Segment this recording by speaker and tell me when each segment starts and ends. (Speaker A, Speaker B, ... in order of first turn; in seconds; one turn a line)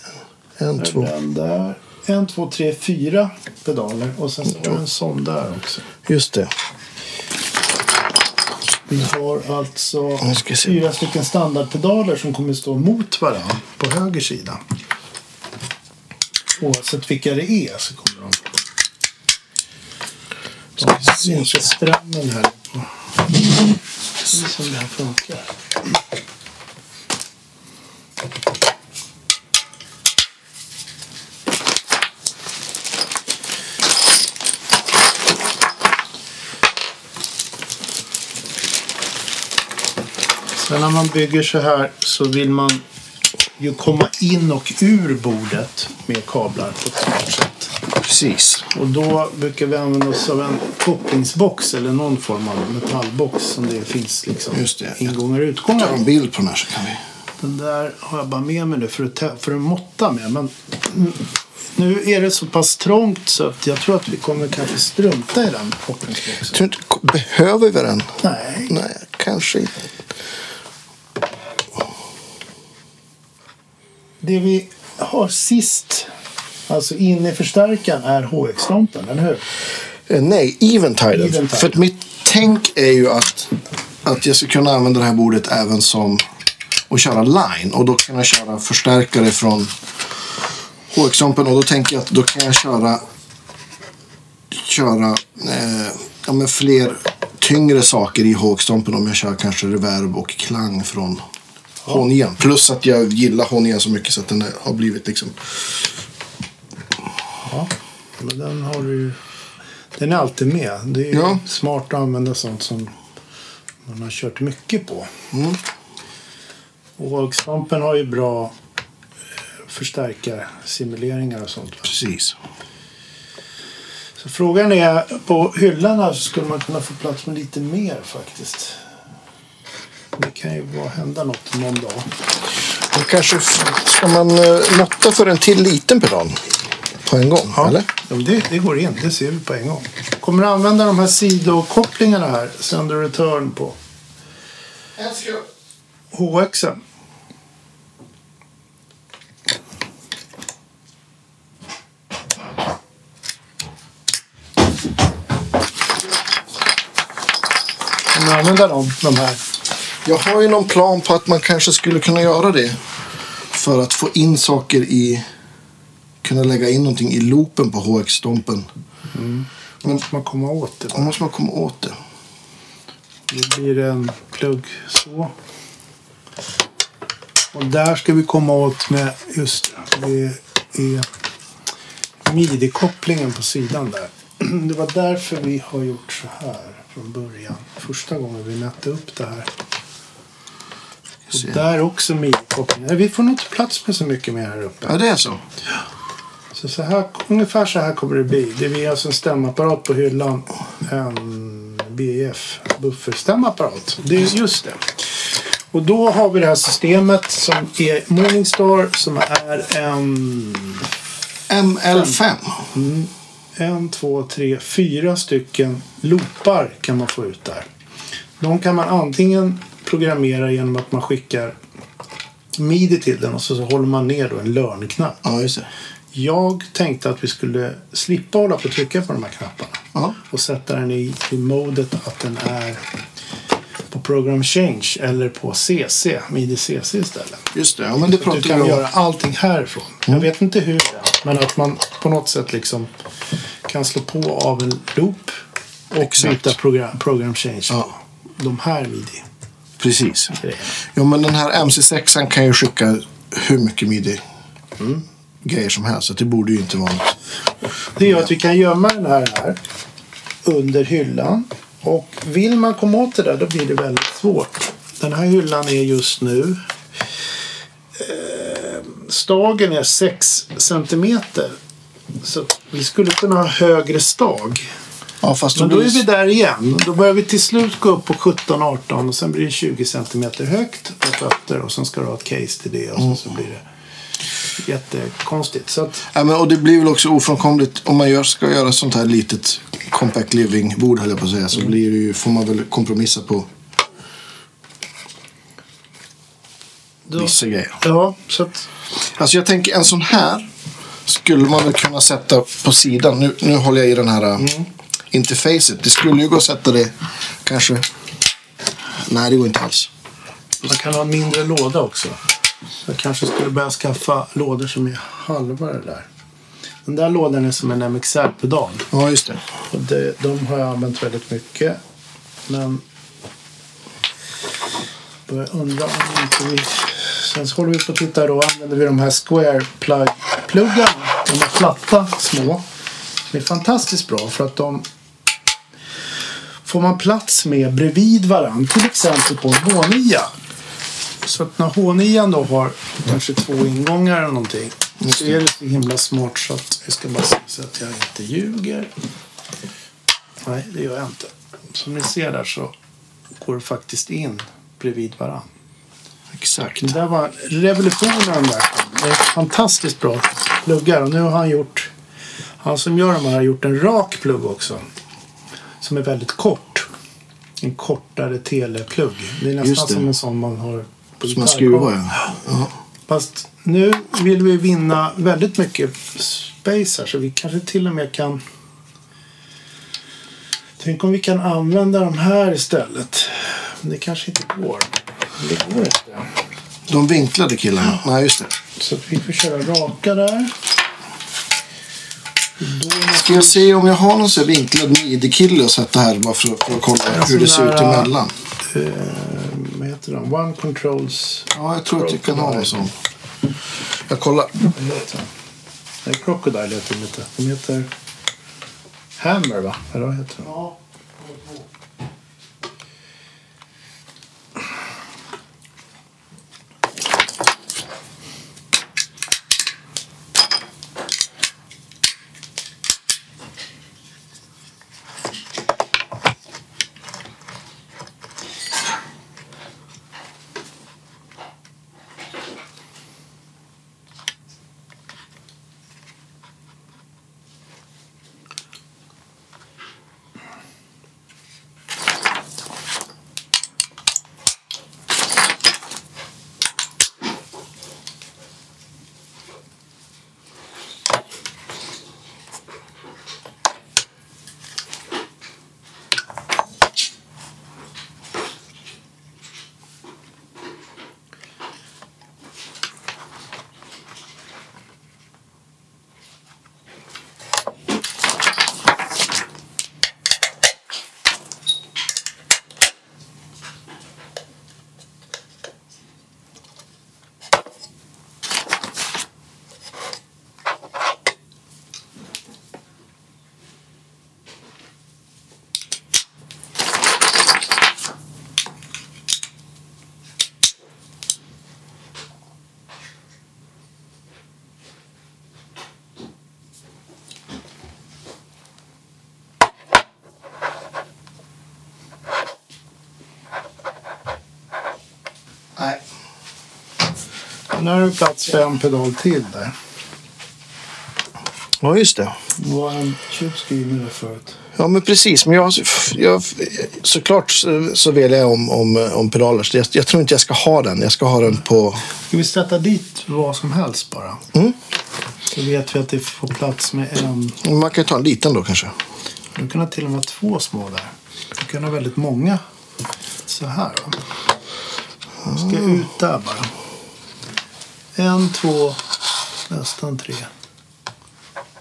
Speaker A: 0.6-1.1
Speaker B: 0.8-5.8
Speaker A: 6.0-6.5
Speaker B: 8.9-14.6
Speaker A: 10.2-10.7
Speaker B: 16.6-18.4
Speaker A: 20.8-21.6
Speaker B: 20.8-22.9
Speaker B: 24.2-25.9
Speaker B: 40.6-42.8
Speaker B: 43.6-47.7
Speaker A: 48.0-48.7
Speaker B: 48.7-56.0
Speaker A: 54.5-55.1
Speaker A: 55.8-57.0
Speaker B: 57.4-66.6
Speaker A: 66.5-68.1
Speaker B: 68.2-68.8
Speaker A: 68.7-69.8
Speaker B: 74.2-76.1
Speaker B: 76.7-79.4
Speaker A: 80.1-86.2
Speaker B: 81.1-81.8
Speaker A: 86.9-89.7
Speaker A: 90.9-93.0
Speaker A: 94.5-101.2
Speaker A: 101.8-105.9
Speaker B: 107.4-109.2
Speaker B: 110.0-113.0
Speaker A: 111.1-111.4
Speaker B: 113.8-115.1
Speaker A: 115.3-115.6
Speaker B: 117.0-118.5
Speaker B: 119.7-121.9
Speaker A: 121.9-122.3
Speaker B: 124.2-128.8
Speaker B: 130.2-132.1
Speaker A: 132.9-136.4
Speaker A: 137.0-137.9
Speaker B: 137.5-143.8
Speaker A: 145.0-145.4
Speaker B: 146.1-146.8
Speaker B: 158.1-159.4
Speaker A: 160.0-162.8
Speaker A: 163.5-165.2
Speaker A: 166.2-168.7
Speaker B: 169.1-171.2
Speaker A: 170.9-171.9
Speaker B: 173.3-175.3
Speaker B: 177.5-181.1
Speaker B: 182.2-189.5
Speaker A: 191.3-191.6
Speaker B: 191.3-195.0
Speaker A: 194.8-195.4
Speaker B: 196.5-204.9
Speaker B: 205.7-210.9
Speaker A: 211.5-212.7
Speaker B: 212.7-217.7
Speaker B: 218.4-221.6
Speaker B: 222.6-225.2
Speaker A: 225.2-225.7
Speaker B: 226.1-232.8
Speaker B: 233.9-237.5
Speaker A: 237.5-238.8
Speaker B: 238.0-242.9
Speaker B: 243.7-245.4
Speaker B: 245.9-249.2
Speaker A: 246.0-246.5
Speaker A: 249.8-254.2
Speaker B: 250.4-250.7
Speaker A: 255.4-257.1
Speaker B: 257.9-259.6
Speaker B: 260.4-266.6
Speaker B: 267.9-271.6
Speaker B: 272.2-274.7
Speaker A: 275.2-276.0
Speaker B: 275.5-283.6
Speaker B: 284.6-286.1
Speaker A: 286.1-293.5
Speaker B: 297.1-298.7
Speaker A: 297.2-297.8
Speaker A: 299.0-300.5
Speaker A: 301.1-304.6
Speaker A: 305.1-307.8
Speaker A: 309.1-309.9
Speaker B: 310.6-312.2
Speaker B: 312.8-316.1
Speaker B: 316.9-318.9
Speaker A: 318.9-319.4
Speaker B: 319.7-321.8
Speaker B: 322.5-322.8
Speaker B: 325.3-332.6
Speaker B: 333.3-334.9
Speaker B: 336.6-340.3
Speaker B: 341.2-348.9
Speaker B: 350.4-352.7
Speaker B: 353.4-355.5
Speaker A: 356.3-356.9
Speaker B: 356.8-361.9
Speaker B: 362.6-364.8
Speaker B: 365.8-366.9
Speaker B: 367.6-372.2
Speaker A: 369.6-370.0
Speaker A: 371.3-372.7
Speaker B: 373.1-378.4
Speaker B: 380.8-386.3
Speaker A: 386.9-388.6
Speaker B: 388.8-390.6
Speaker B: 392.6-393.7
Speaker A: 393.1-398.3
Speaker B: 397.1-402.8
Speaker A: 401.5-402.9
Speaker A: 404.1-404.7
Speaker B: 404.7-405.3
Speaker B: 406.0-407.9
Speaker B: 409.2-410.7
Speaker B: 507.7-509.7
Speaker A: 511.8-512.4
Speaker B: 512.5-514.6
Speaker A: 514.8-522.0
Speaker B: 522.3-524.4
Speaker B: 525.5-527.6
Speaker A: 527.6-528.9
Speaker B: 529.5-532.6
Speaker B: 533.5-534.2
Speaker A: 535.5-535.9
Speaker B: 535.5-536.7
Speaker B: 538.1-539.0
Speaker B: 539.7-540.5